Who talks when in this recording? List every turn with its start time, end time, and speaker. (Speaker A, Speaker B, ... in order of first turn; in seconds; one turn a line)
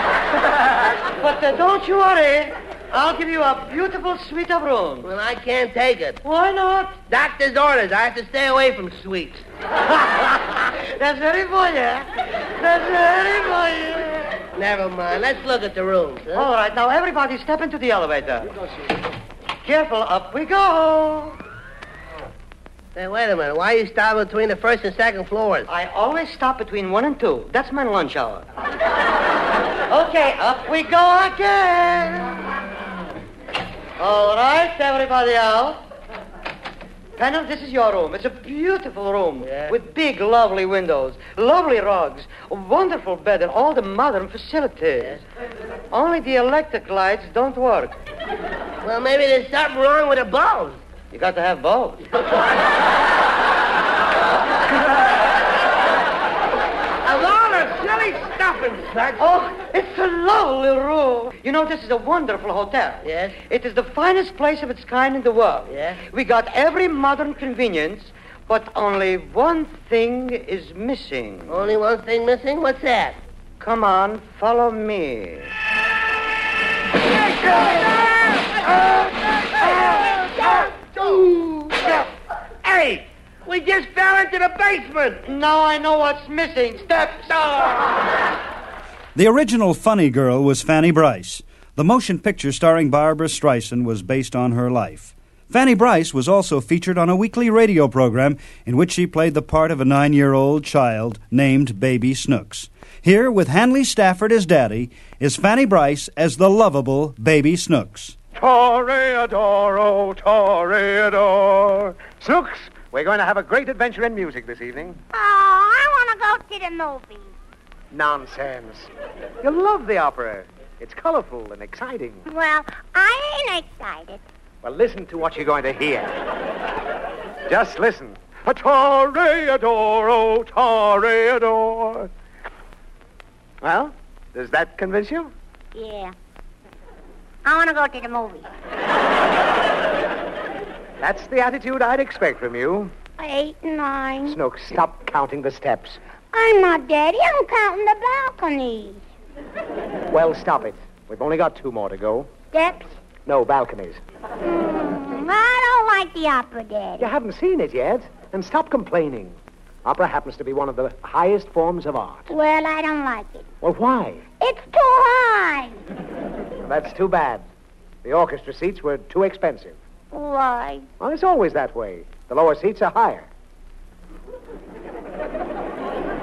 Speaker A: 1.2-5.1
Speaker B: 5.0-6.2
Speaker A: 6.2-7.0
Speaker B: 7.1-9.4
Speaker A: 10.9-14.4
Speaker B: 14.6-16.5
Speaker A: 16.3-18.5
Speaker A: 19.6-21.4
Speaker B: 23.0-25.7
Speaker A: 25.7-28.4
Speaker A: 29.9-32.4
Speaker A: 34.0-35.8
Speaker A: 37.2-45.2
Speaker B: 39.4-39.8
Speaker A: 45.9-47.9
Speaker B: 48.8-50.8
Speaker A: 51.1-52.2
Speaker B: 57.0-59.3
Speaker A: 59.2-71.7
Speaker B: 63.0-63.4
Speaker B: 65.7-66.0
Speaker B: 71.5-73.2
Speaker A: 73.6-75.5
Speaker B: 82.7-85.2
Speaker A: 85.2-87.5
Speaker C: 89.2-108.2
Speaker D: 108.3-115.0
Speaker E: 115.1-117.3
Speaker D: 117.9-118.9
Speaker D: 119.4-122.2
Speaker E: 122.3-124.2
Speaker D: 124.6-126.2
Speaker D: 127.5-132.1
Speaker D: 133.6-135.3
Speaker E: 135.8-136.1
Speaker E: 137.4-138.5
Speaker D: 141.0-142.9
Speaker E: 143.2-144.4
Speaker D: 144.3-146.0
Speaker E: 146.3-149.0
Speaker D: 150.1-152.3
Speaker E: 152.5-152.9
Speaker D: 153.2-154.0
Speaker E: 154.4-157.1
Speaker D: 157.0-162.3
Speaker E: 162.3-163.5
Speaker D: 163.6-164.2
Speaker E: 164.4-165.8
Speaker D: 166.6-167.4
Speaker D: 168.0-169.8
Speaker E: 170.1-170.9
Speaker D: 171.0-173.3